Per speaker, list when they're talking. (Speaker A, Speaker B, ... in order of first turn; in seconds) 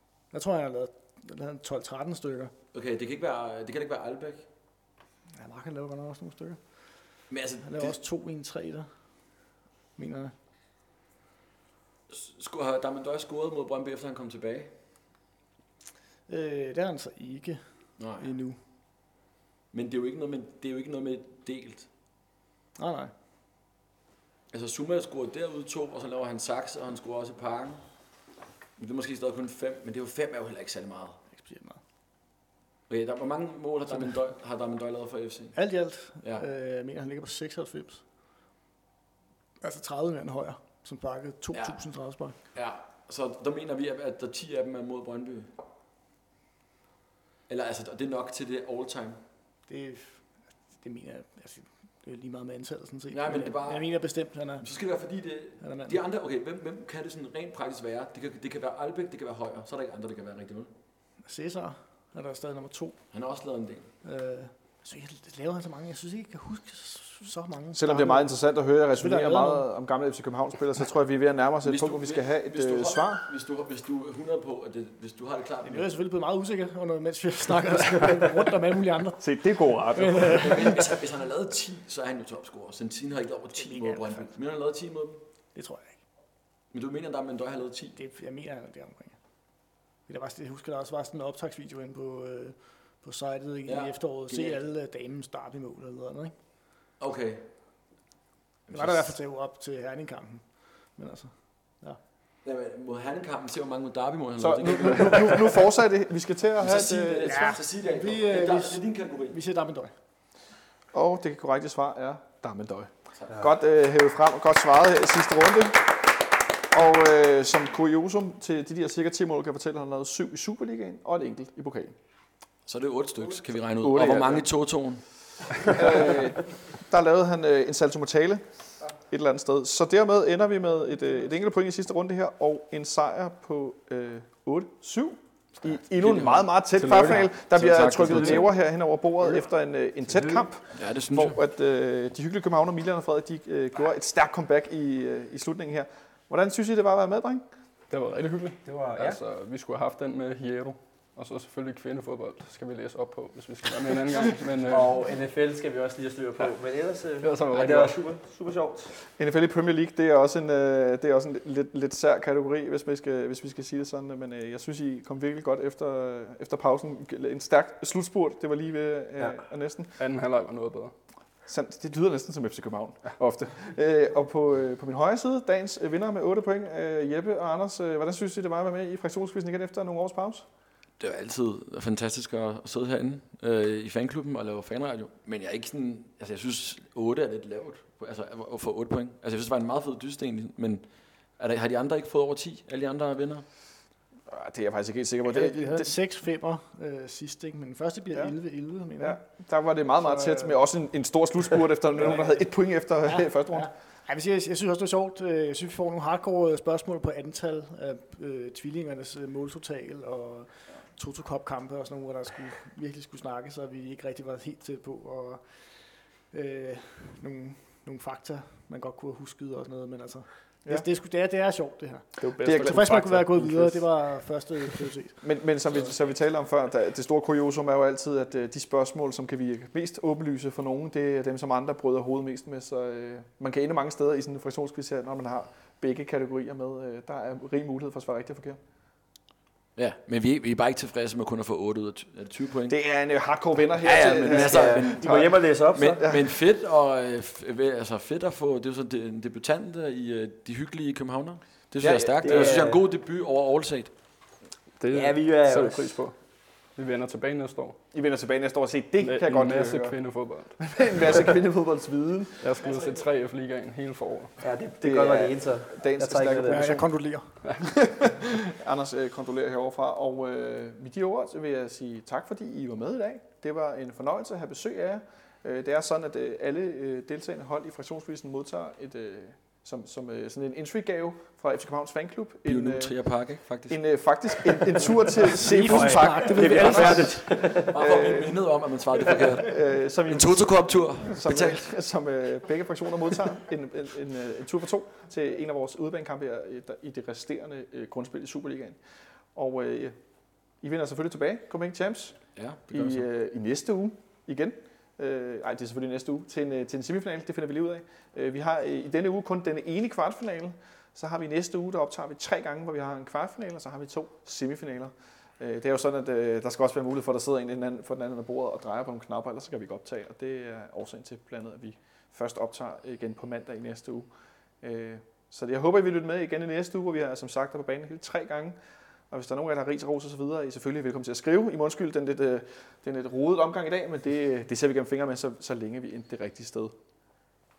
Speaker A: 0.3-2.5, 5.4-6.6, 7.6-8.9, 10.0-10.3, 16.3-18.6, 22.8-23.1, 31.3-31.8, 35.5-38.0, 39.6-42.4, 49.7-54.7, 55.6-56.0, 61.2-63.0, 64.0-68.3, 69.0-69.7, 75.6-80.9, 83.6-84.3, 85.5-86.0, 88.0-89.2, 90.1-96.3, 98.7-102.0, 107.2-109.9, 195.3-199.2, 200.0-200.6, 203.1-215.5, 216.3-225.2, 266.4-267.4, 285.3-287.2
Speaker B: 2.7-4.5, 7.3-8.0, 12.1-14.7, 18.0-18.3, 19.7-21.9, 24.5-27.8, 28.8-31.2, 32.9-35.6, 41.5-41.8, 42.5-45.5, 47.5-49.2, 53.1-53.9, 54.6-60.7, 63.1-63.9, 71.6-76.0, 80.3-85.2, 86.7-88.0, 93.7-94.6, 97.0-97.5, 98.7-99.2, 102.5-105.6, 106.6-109.4, 122.7-125.8, 135.9-138.5, 140.7-141.4, 181.0-190.9, 191.4-193.4, 239.8-242.8, 243.8-253.9, 282.5-283.8, 287.3-291.7, 302.4-303.1
Speaker C: 67.7-73.2, 79.2-80.5, 104.4-107.4, 110.9-116.0, 116.7-122.0, 123.8-124.5, 125.7-128.4, 129.1-147.4, 159.2-170.0, 171.5-180.5, 194.3-195.9, 199.0-203.7, 222.4-222.8, 225.2-238.6, 242.7-245.3, 246.0-246.3, 251.8-252.7, 257.9-260.0, 260.6-262.5, 264.8-266.9, 267.6-282.9, 283.7-288.4, 289.1-298.8, 299.3-300.0, 300.6-302.2, 302.7-324.1, 324.6-328.6, 329.1-336.8
Speaker D: 136.8-137.2, 147.9-154.9, 157.2-158.0, 170.0-170.9, 222.2-223.9, 254.8-256.2, 256.8-257.8, 259.0-260.6, 262.4-264.4
Speaker E: 148.7-149.2, 154.7-158.9, 244.2-246.0, 252.2-252.8, 254.9-256.0, 264.4-266.8, 285.7-287.7